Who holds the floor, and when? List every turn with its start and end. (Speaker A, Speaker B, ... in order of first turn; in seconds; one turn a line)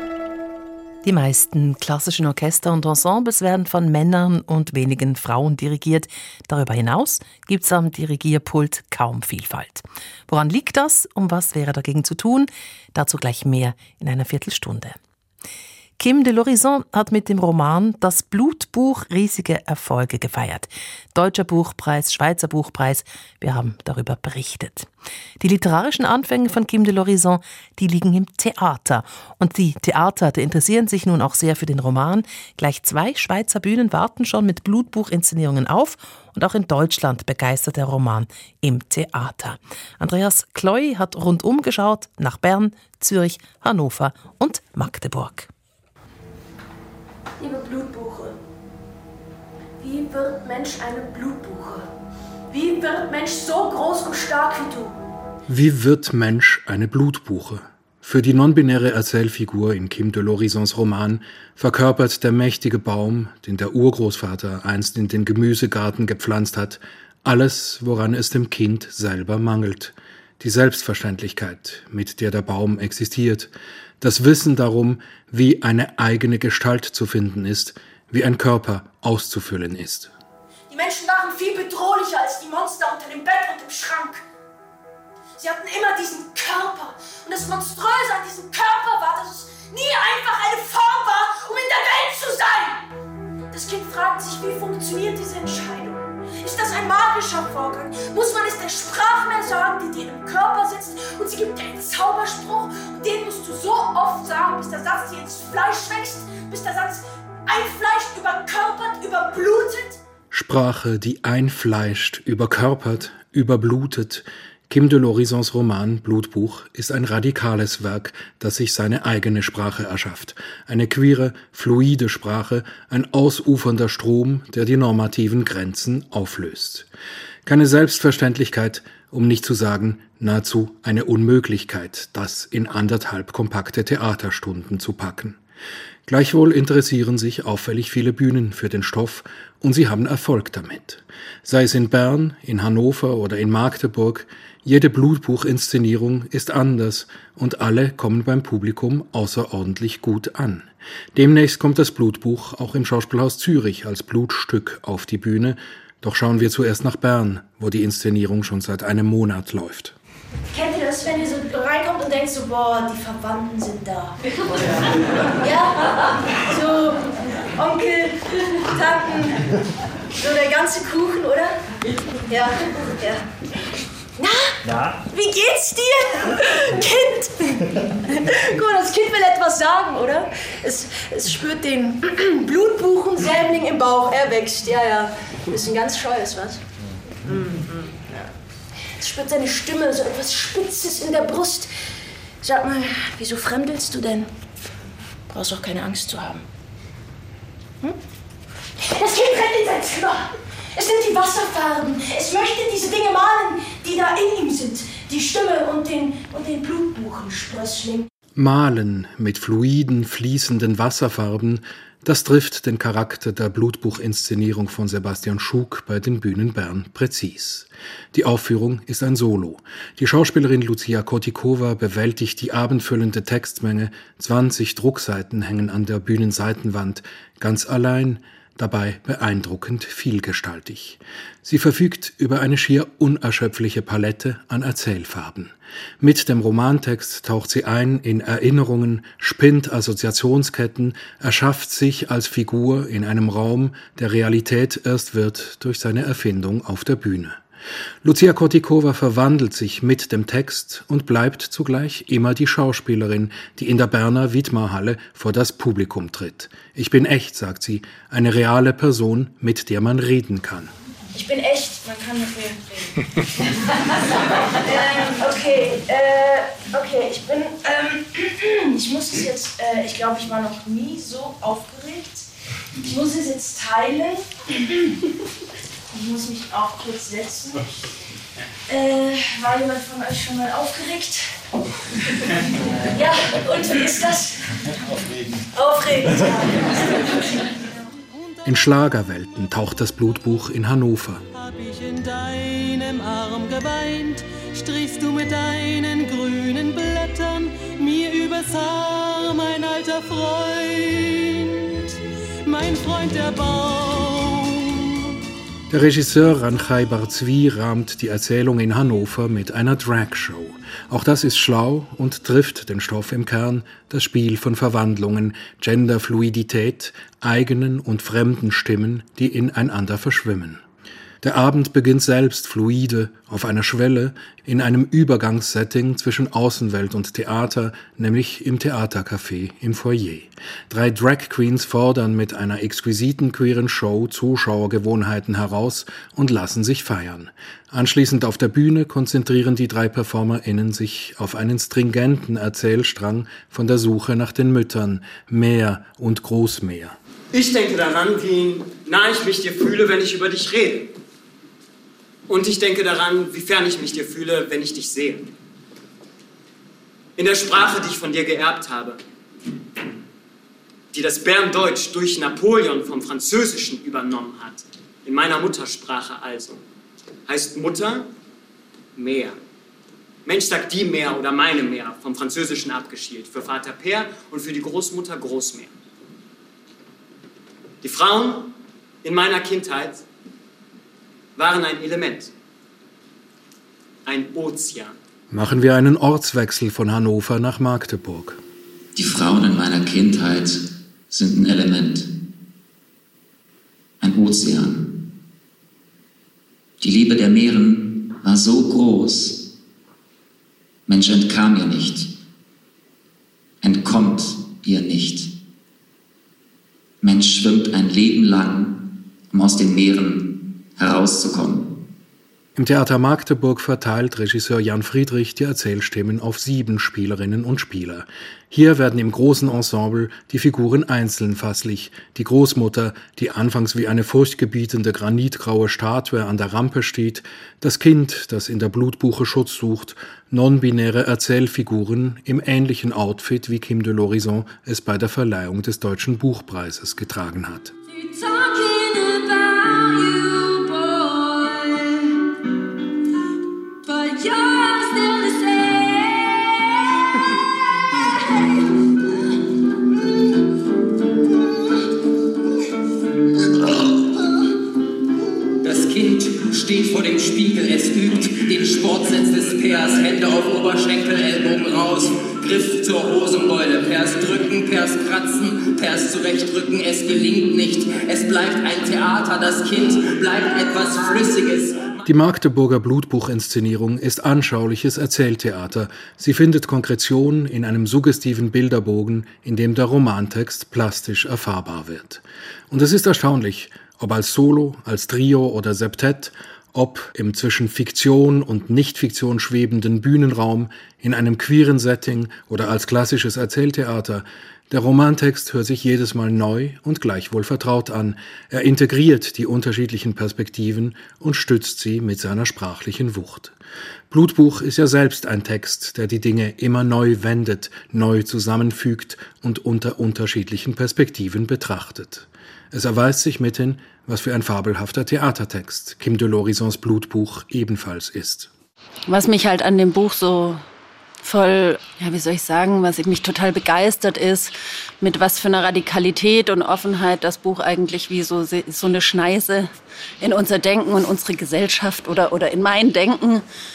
Speaker A: 1.0-15.0
Speaker A: 16.0-24.9
Speaker A: 25.4-45.5
Speaker B: 47.4-48.4
Speaker B: 49.8-51.9
Speaker B: 52.5-55.0
Speaker C: 55.5-73.5
Speaker C: 74.0-80.1
Speaker B: 80.7-84.2
Speaker B: 85.4-92.8
Speaker B: 93.5-110.0
Speaker C: 110.3-126.9
Speaker C: 127.4-135.4
Speaker C: 136.1-159.9
Speaker B: 160.5-169.5
Speaker B: 170.1-171.6
Speaker B: 172.3-173.2
Speaker B: 174.2-186.6
Speaker B: 187.4-188.1
Speaker B: 188.9-191.7
Speaker B: 192.4-194.3
Speaker B: 195.3-196.4
Speaker B: 198.8-208.1
Speaker C: 208.3-247.4
Speaker C: 248.0-260.7
Speaker B: 261.1-262.9
Speaker B: 263.5-274.8
Speaker B: 275.9-277.7
Speaker B: 278.7-281.3
Speaker B: 282.7-284.6
Speaker B: 285.4-287.7
Speaker D: 288.1-288.5
Speaker C: 288.4-291.2
Speaker D: 291.3-301.9
Speaker D: 302.4-305.0
Speaker C: 305.7-320.6
Speaker C: 321.2-347.0
Speaker E: 347.3-350.9
Speaker E: 352.3-355.3
Speaker E: 357.1-359.0
Speaker E: 360.9-366.6
Speaker E: 367.3-368.1
Speaker E: 368.9-369.4
Speaker E: 370.2-375.7
Speaker E: 377.8-378.5
Speaker E: 379.0-380.0
Speaker E: 381.4-382.3
Speaker E: 384.1-384.9
Speaker C: 385.3-388.4
Speaker F: 388.9-392.1
Speaker F: 394.0-394.9
Speaker F: 396.8-399.4
Speaker F: 400.9-402.1
Speaker F: 403.6-405.3
Speaker F: 407.0-411.6
Speaker C: 412.6-437.7
Speaker B: 438.0-441.5
Speaker B: 443.9-445.9
Speaker G: 455.6-472.0
Speaker C: 472.1-503.5
Speaker C: 504.1-518.5
Speaker H: 519.1-520.6
Speaker H: 521.2-529.7
Speaker H: 530.2-533.4